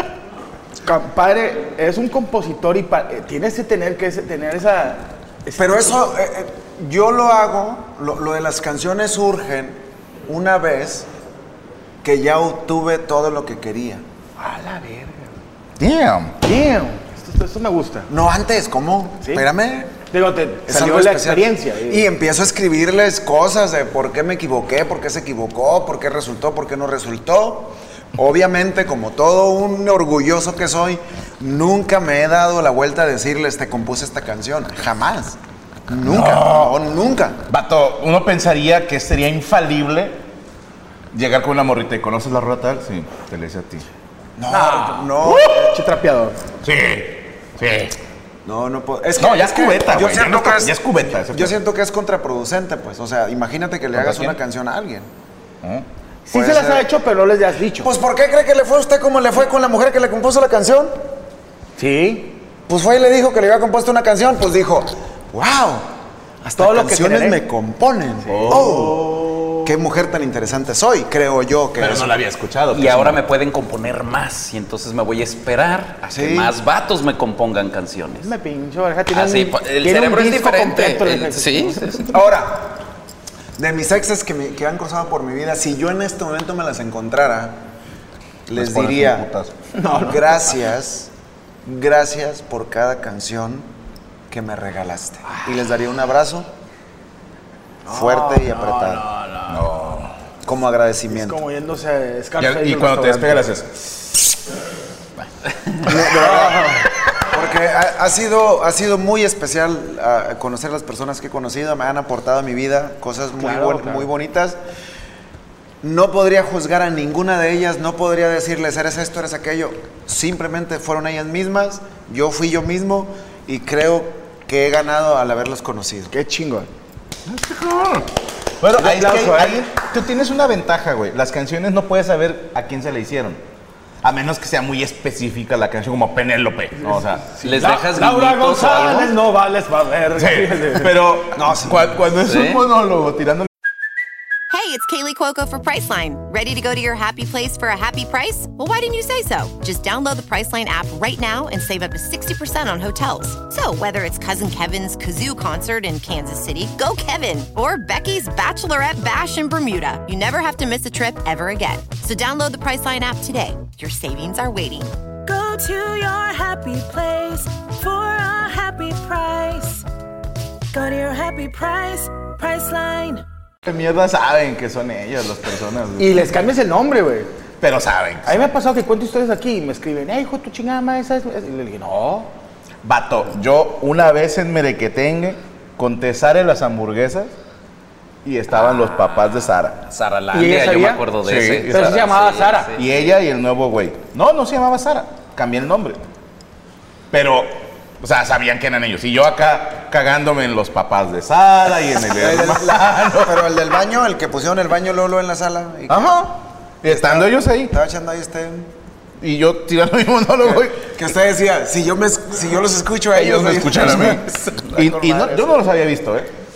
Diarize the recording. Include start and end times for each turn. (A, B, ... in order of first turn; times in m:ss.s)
0:00.8-0:06.0 A
0:05.6-0:11.1 B
0:12.0-0:14.0 B
0:14.4-0:15.3 A
0:15.8-0:16.4 C
0:16.4-0:18.1 A
0:18.1-0:20.0 B
0:20.1-0:22.1 A
0:20.7-0:35.4 B
0:35.9-0:37.4 B
0:36.0-0:36.7 C
0:37.5-0:40.2 C
0:41.1-0:43.9 C
0:44.4-0:45.8 B
0:44.5-0:46.4 A
0:45.2-0:45.7 C
0:46.6-0:48.0 C
0:48.4-0:55.1 B
0:49.2-0:51.6 C
0:53.9-0:54.4 C
0:56.3-0:57.9 A
0:56.3-0:56.9 B
0:57.8-1:01.0 B
1:01.8-1:02.4 A
1:02.7-1:05.9 B
1:06.4-1:09.1 B
1:06.6-1:07.4 A
1:08.3-1:08.8 A
1:08.3-1:09.7 C
1:09.6-1:12.1 B
1:11.8-1:13.2 C
1:12.7-1:18.3 D
1:16.1-1:16.5 B
1:18.2-1:22.1 A
1:19.1-1:22.1 D
1:22.1-1:22.4 C
1:22.2-1:22.7 B
1:23.6-1:27.6 B
1:28.5-1:29.3 B
1:28.6-1:29.5 C
1:29.8-1:30.4 A
1:29.9-1:31.1 B
1:31.6-1:33.7 B
1:34.3-1:36.5 B
1:37.9-1:39.1 B
1:37.9-1:39.7 A
1:39.5-1:40.1 C
1:40.4-1:41.4 B
1:41.1-1:43.4 A
1:42.4-1:44.0 C
1:45.8-1:54.6 B
1:46.1-1:46.8 A
1:53.4-1:54.1 A
1:55.8-2:06.1 B
2:06.1-2:06.7 A
2:07.3-2:08.1 C
2:08.6-2:13.4 C
2:08.8-2:09.6 A
2:14.0-2:17.3 C
2:16.8-2:20.9 A
2:17.4-2:19.2 D
2:20.2-2:23.5 C
2:21.3-2:21.9 B
2:22.2-2:22.6 D
2:24.5-2:45.0 E
2:45.2-2:49.8 F
2:50.7-2:53.2 F
2:53.6-2:56.3 C
2:56.0-2:57.3 A
2:57.6-2:58.5 C
2:58.2-3:02.3 A
3:02.8-3:07.3 C
3:08.2-3:09.8 C
3:09.9-3:12.8 D
3:10.3-3:11.1 A
3:11.2-3:11.9 C
3:11.7-3:12.7 A
3:12.8-3:16.0 C
3:17.1-3:23.6 C
3:22.2-3:26.2 B
3:25.9-3:27.7 C
3:26.8-3:28.7 B
3:29.2-3:30.9 C
3:30.4-3:34.5 B
3:33.1-3:36.3 C